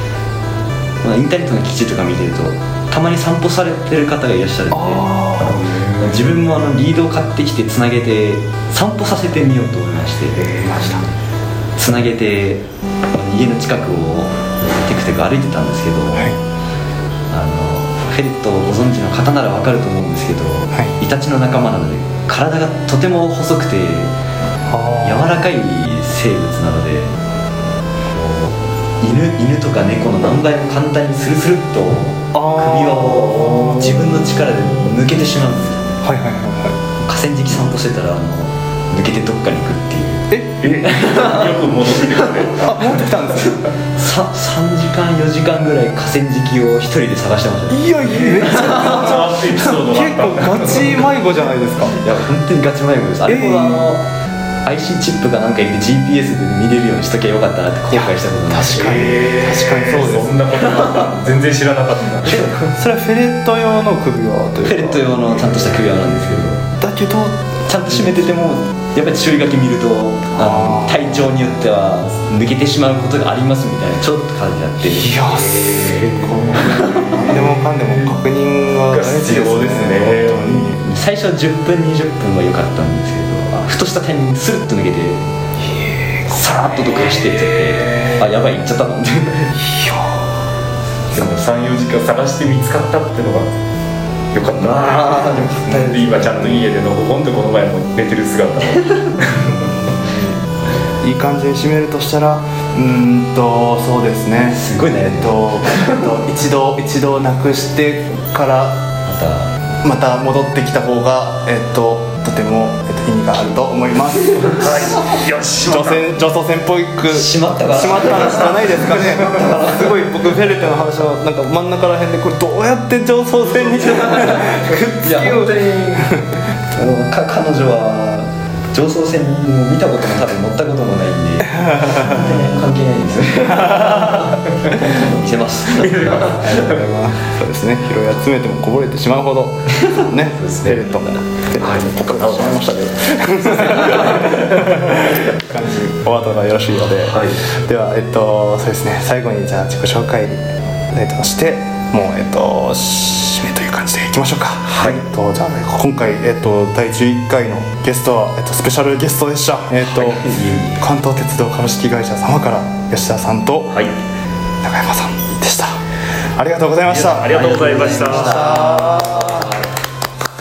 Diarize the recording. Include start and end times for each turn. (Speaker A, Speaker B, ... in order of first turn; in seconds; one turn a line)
Speaker A: 1.0-5.1
Speaker B: 4.7-5.6
Speaker C: 5.4-6.4
Speaker A: 6.0-10.4
Speaker C: 10.4-11.0
Speaker B: 10.6-11.0
Speaker A: 11.8-16.3
Speaker A: 17.3-24.1
Speaker B: 24.7-25.4
Speaker A: 25.0-27.1
Speaker A: 28.1-35.9
Speaker B: 32.3-34.1
Speaker C: 33.4-33.7
Speaker B: 36.0-36.8
Speaker A: 37.0-42.5
Speaker C: 40.6-42.7
Speaker B: 42.6-43.6
Speaker A: 43.4-49.7
Speaker B: 47.7-52.0
Speaker C: 48.5-51.1
Speaker A: 52.0-54.1
Speaker B: 53.3-53.9
Speaker A: 54.6-59.3
Speaker B: 57.9-60.4
Speaker C: 58.7-62.7
Speaker A: 60.5-61.1
Speaker A: 62.2-62.5
Speaker B: 62.6-65.2
Speaker A: 64.6-66.6
Speaker B: 66.6-67.6
Speaker A: 67.7-75.2
Speaker B: 70.3-71.2
Speaker B: 74.9-80.8
Speaker C: 75.1-77.3
Speaker A: 76.6-77.3
Speaker C: 77.8-78.1
Speaker C: 78.9-80.7
Speaker A: 80.7-85.2
Speaker B: 85.7-86.4
Speaker A: 86.3-89.5
Speaker C: 87.2-87.8
Speaker B: 89.5-90.2
Speaker C: 91.1-93.5
Speaker C: 94.3-99.7
Speaker A: 94.6-96.7
Speaker B: 101.0-108.8
Speaker A: 104.5-106.1
Speaker A: 109.0-109.5
Speaker B: 109.8-126.3
Speaker C: 114.4-116.2
Speaker A: 117.0-120.3
Speaker A: 123.7-136.5
Speaker B: 131.5-132.2
Speaker B: 133.7-134.2
Speaker C: 135.7-136.8
Speaker B: 136.2-163.8
Speaker C: 140.4-140.8
Speaker C: 141.6-142.7
Speaker C: 143.4-145.2
Speaker C: 147.0-147.4
Speaker A: 154.7-155.0
Speaker A: 159.8-160.8
Speaker B: 164.6-165.8
Speaker B: 166.3-169.6
Speaker A: 166.9-169.6
Speaker C: 167.0-168.9